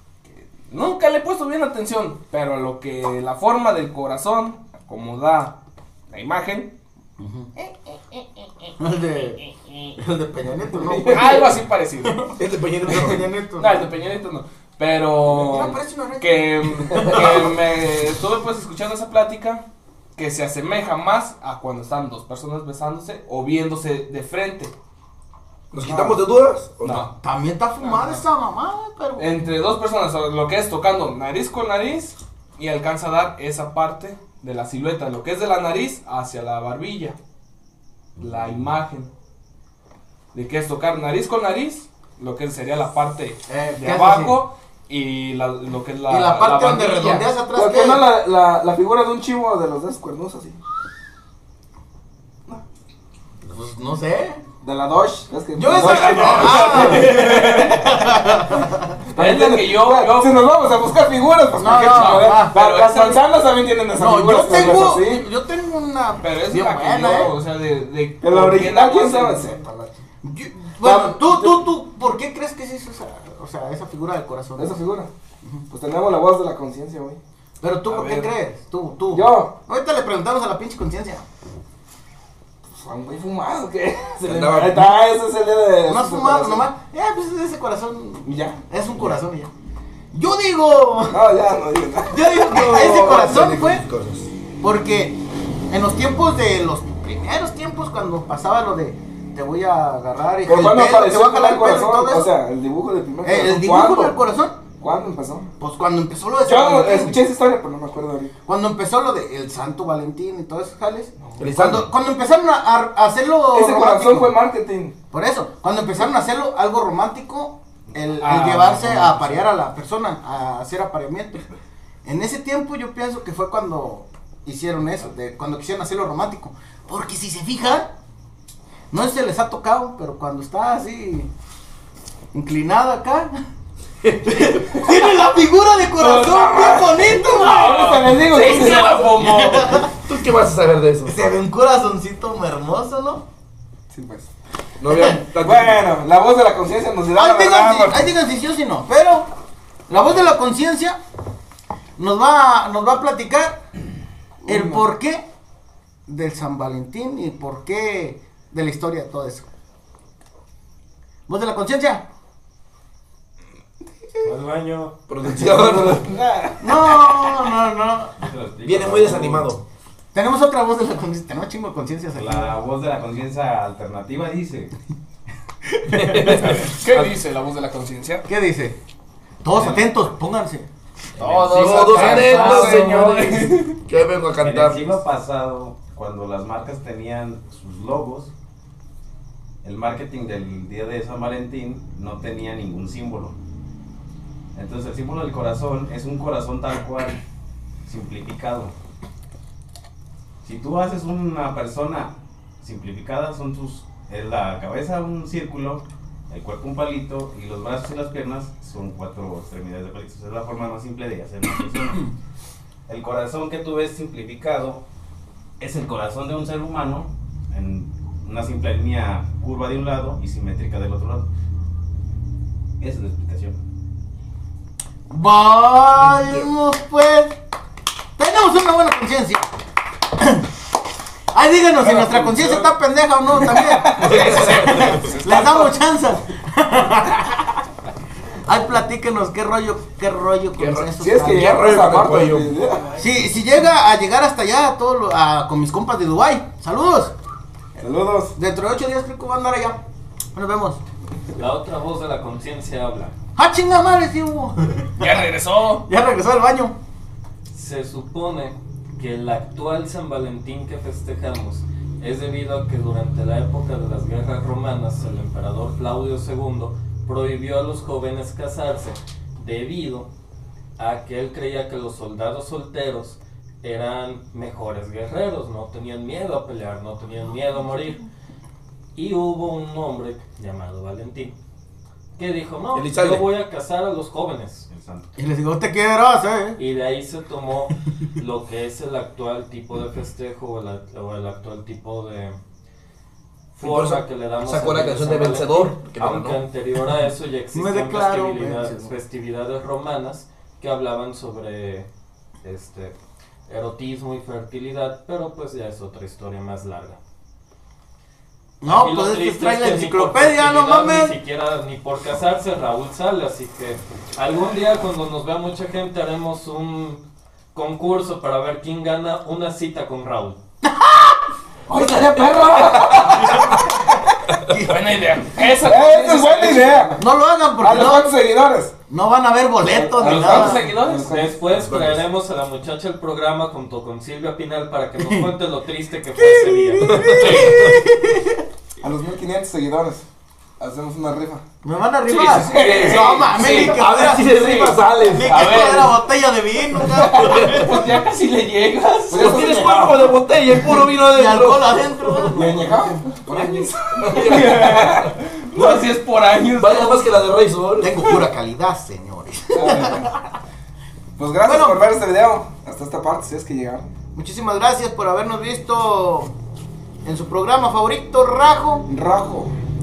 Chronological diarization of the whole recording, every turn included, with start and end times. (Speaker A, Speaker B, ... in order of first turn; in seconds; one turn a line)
Speaker A: 0.3-5.6
Speaker A: 6.1-6.7
Speaker B: 7.2-7.5
Speaker B: 8.8-13.8
Speaker C: 10.8-11.5
Speaker A: 11.1-12.3
Speaker D: 12.4-13.2
Speaker A: 13.6-19.6
Speaker B: 15.3-17.5
Speaker A: 20.2-24.7
Speaker D: 25.7-27.1
Speaker C: 25.8-26.2
Speaker A: 26.8-27.1
Speaker B: 27.1-29.3
Speaker A: 27.8-28.2
Speaker A: 29.2-37.2
Speaker E: 38.2-38.6
Speaker A: 38.2-39.1
Speaker A: 40.3-47.3
Speaker B: 43.5-44.4
Speaker B: 46.1-48.1
Speaker C: 47.5-50.6
Speaker B: 53.4-54.4
Speaker C: 54.6-57.7
Speaker B: 55.5-58.9
Speaker A: 55.7-58.2
Speaker C: 59.1-65.3
Speaker A: 59.2-60.7
Speaker B: 61.6-62.6
Speaker A: 61.6-63.3
Speaker B: 64.0-67.4
Speaker A: 64.5-65.0
Speaker A: 66.2-69.9
Speaker C: 68.2-69.7
Speaker B: 70.2-74.8
Speaker C: 70.8-71.6
Speaker C: 74.6-75.1
Speaker C: 75.7-77.2
Speaker B: 77.6-81.2
Speaker C: 77.9-78.3
Speaker C: 79.1-79.5
Speaker C: 82.7-86.7
Speaker D: 84.2-85.1
Speaker B: 85.9-89.5
Speaker C: 88.2-89.2
Speaker B: 90.1-91.2
Speaker C: 91.1-93.4
Speaker B: 92.1-93.8
Speaker D: 92.5-94.3
Speaker B: 94.6-102.3
Speaker C: 100.5-104.2
Speaker B: 103.2-104.6
Speaker C: 104.8-105.5
Speaker B: 105.6-107.2
Speaker C: 106.5-108.3
Speaker B: 108.5-114.3
Speaker D: 111.4-111.9
Speaker C: 113.5-115.0
Speaker B: 115.1-121.5
Speaker A: 118.2-119.5
Speaker B: 122.0-127.9
Speaker B: 128.9-131.3
Speaker B: 132.3-133.3
Speaker D: 134.0-134.5
Speaker B: 134.2-139.9
Speaker C: 134.8-135.1
Speaker C: 135.9-138.9
Speaker A: 137.4-139.9
Speaker D: 139.8-141.2
Speaker B: 141.1-143.2
Speaker C: 143.9-144.3
Speaker D: 144.8-145.9
Speaker B: 144.9-145.2
Speaker C: 145.4-148.1
Speaker B: 147.1-149.3
Speaker B: 149.9-151.0
Speaker B: 152.0-153.6
Speaker B: 154.4-155.2
Speaker C: 154.5-154.8
Speaker B: 156.1-159.5
Speaker B: 161.3-162.0
Speaker F: 164.2-165.0
Speaker D: 165.1-166.2
Speaker C: 165.2-167.3
Speaker B: 166.6-168.3
Speaker E: 168.2-169.5
Speaker D: 168.6-169.6
Speaker B: 170.1-172.6
Speaker E: 172.1-174.7
Speaker B: 175.7-176.8
Speaker D: 175.9-176.6
Speaker A: 176.2-178.3
Speaker B: 178.3-178.8
Speaker B: 179.4-180.7
Speaker E: 179.5-179.8
Speaker E: 181.2-181.6
Speaker A: 181.2-183.7
Speaker D: 181.5-184.9
Speaker B: 181.8-182.8
Speaker C: 181.9-183.5
Speaker E: 184.4-188.3
Speaker E: 189.6-193.4
Speaker E: 194.6-197.2
Speaker E: 197.8-198.7
Speaker E: 200.4-212.1
Speaker E: 212.9-214.8
Speaker E: 215.6-221.3
Speaker E: 222.8-223.6
Speaker B: 225.1-227.4
Speaker D: 226.0-226.5
Speaker B: 228.2-229.5
Speaker B: 230.2-230.5
Speaker B: 231.3-237.6
Speaker C: 231.8-232.7
Speaker C: 233.5-234.4
Speaker A: 233.9-235.7
Speaker D: 234.0-235.1
Speaker B: 238.5-241.9
Speaker D: 240.6-242.5
Speaker C: 241.0-243.0
Speaker B: 243.0-247.1
Speaker C: 247.8-248.3
Speaker B: 248.4-249.8
Speaker B: 250.3-250.8
Speaker F: 251.3-253.2
Speaker B: 253.4-255.1
Speaker A: 255.0-255.9
Speaker B: 255.9-256.7
Speaker F: 257.5-270.1
Speaker F: 270.8-278.1
Speaker F: 278.9-281.3
Speaker F: 282.2-284.7
Speaker D: 282.7-283.3
Speaker E: 284.7-285.1
Speaker B: 285.2-286.6
Speaker F: 286.6-292.4
Speaker F: 293.5-301.9
Speaker D: 293.6-296.4
Speaker B: 297.5-298.9
Speaker F: 302.4-302.9
Speaker F: 303.5-307.0
Speaker B: 308.6-311.2
Speaker F: 308.7-317.0
Speaker F: 317.5-320.4
Speaker B: 320.6-321.2
Speaker C: 321.7-323.5
Speaker B: 323.1-324.9
Speaker A: 324.6-327.0
Speaker C: 325.6-327.1
Speaker B: 327.0-328.1
Speaker C: 327.6-328.7
Speaker B: 328.9-330.7
Speaker C: 329.7-331.4
Speaker A: 330.0-331.2
Speaker F: 330.7-337.4
Speaker D: 331.5-332.1
Speaker B: 335.0-335.3
Speaker B: 336.2-338.4
Speaker D: 336.8-337.8
Speaker C: 338.8-340.0
Speaker C: 340.6-341.4
Speaker B: 341.6-347.9
Speaker A: 342.1-343.8
Speaker D: 342.4-345.7
Speaker C: 342.5-343.0
Speaker A: 344.3-346.0
Speaker A: 347.1-349.6
Speaker D: 347.1-347.8
Speaker C: 349.1-350.2
Speaker D: 349.1-352.3
Speaker B: 350.8-353.1
Speaker C: 352.3-355.2
Speaker D: 353.3-355.8
Speaker A: 354.1-357.1
Speaker D: 356.6-358.1
Speaker B: 357.8-360.2
Speaker C: 359.5-360.1
Speaker C: 361.2-363.9
Speaker B: 361.4-361.8
Speaker B: 364.1-366.3
Speaker B: 367.1-368.9
Speaker C: 368.9-369.5